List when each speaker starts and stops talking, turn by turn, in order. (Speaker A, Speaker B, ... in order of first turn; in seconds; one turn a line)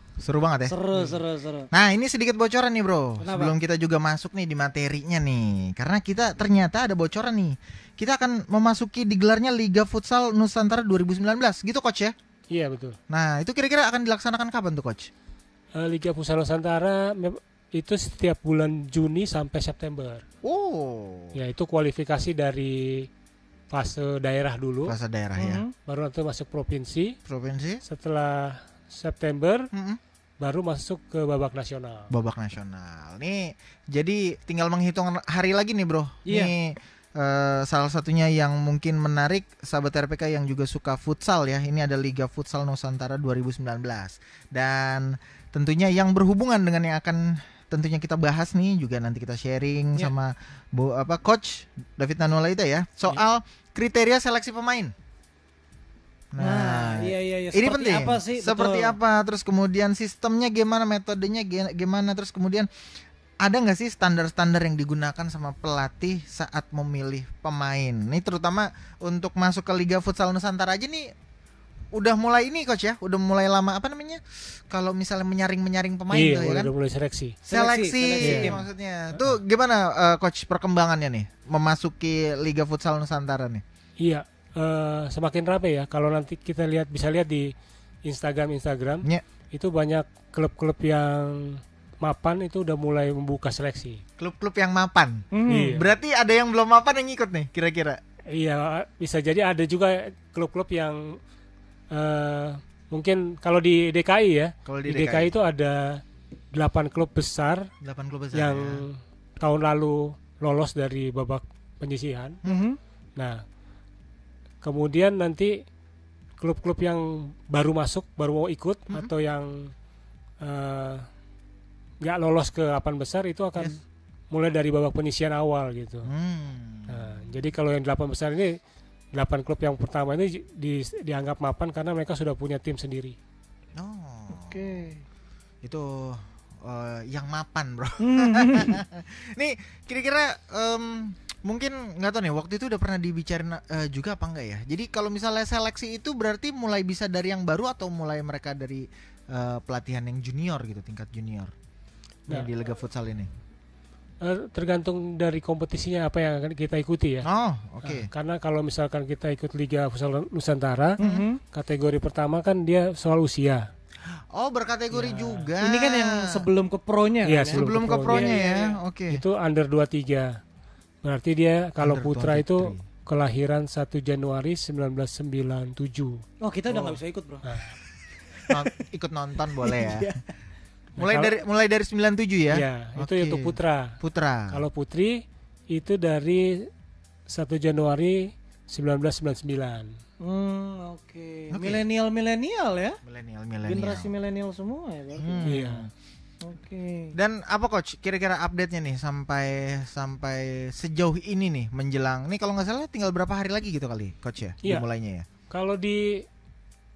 Speaker A: 0.2-0.8
Speaker B: 0.7-1.7
Speaker A: 1.7-12.1
Speaker B: 3.2-3.5
Speaker C: 12.5-13.0
Speaker A: 13.1-15.1
Speaker C: 15.7-20.2
Speaker A: 20.4-21.3
Speaker C: 21.3-23.1
Speaker C: 23.7-24.9
Speaker A: 24.9-25.6
Speaker B: 25.4-25.7
Speaker C: 25.9-27.1
Speaker A: 27.2-27.8
Speaker C: 27.8-29.7
Speaker A: 29.7-30.0
Speaker C: 30.4-32.1
Speaker A: 32.1-54.9
Speaker B: 36.2-36.5
Speaker A: 56.3-62.7
Speaker B: 56.4-59.0
Speaker A: 63.4-71.1
Speaker A: 71.9-76.7
Speaker C: 76.1-77.3
Speaker B: 77.5-78.6
Speaker A: 77.5-83.6
Speaker C: 78.2-78.5
Speaker C: 84.0-87.5
Speaker C: 88.0-94.0
Speaker A: 94.2-98.0
Speaker B: 95.3-95.8
Speaker C: 95.5-95.9
Speaker C: 98.3-101.2
Speaker C: 101.9-106.0
Speaker A: 104.7-105.3
Speaker C: 106.5-107.7
Speaker A: 107.8-108.8
Speaker C: 108.3-112.4
Speaker B: 112.5-112.8
Speaker C: 114.6-115.5
Speaker C: 116.4-119.7
Speaker C: 120.4-121.1
Speaker C: 122.0-123.8
Speaker C: 124.3-126.1
Speaker A: 126.0-127.3
Speaker C: 126.9-128.6
Speaker C: 129.1-133.2
Speaker A: 133.8-134.8
Speaker B: 134.3-135.0
Speaker A: 135.6-151.5
Speaker B: 138.0-138.8
Speaker A: 152.3-153.3
Speaker C: 154.2-157.3
Speaker A: 157.2-158.1
Speaker C: 157.8-161.0
Speaker B: 161.0-161.4
Speaker A: 161.0-161.2
Speaker C: 161.5-163.7
Speaker A: 164.1-166.4
Speaker C: 164.9-165.4
Speaker B: 165.6-168.8
Speaker C: 167.2-168.4
Speaker A: 167.5-169.2
Speaker C: 169.1-170.3
Speaker C: 171.0-176.2
Speaker A: 171.8-172.8
Speaker B: 176.4-177.4
Speaker C: 177.4-177.7
Speaker B: 178.3-178.7
Speaker A: 178.5-180.1
Speaker B: 179.6-180.2
Speaker C: 181.0-181.3
Speaker A: 181.0-184.6
Speaker C: 182.5-184.0
Speaker C: 184.5-186.7
Speaker C: 187.3-189.9
Speaker B: 190.2-193.0
Speaker A: 191.5-191.8
Speaker A: 193.0-194.1
Speaker B: 193.7-195.6
Speaker A: 195.2-195.9
Speaker C: 195.4-195.8
Speaker B: 196.4-197.2
Speaker A: 197.1-205.2
Speaker C: 205.5-206.2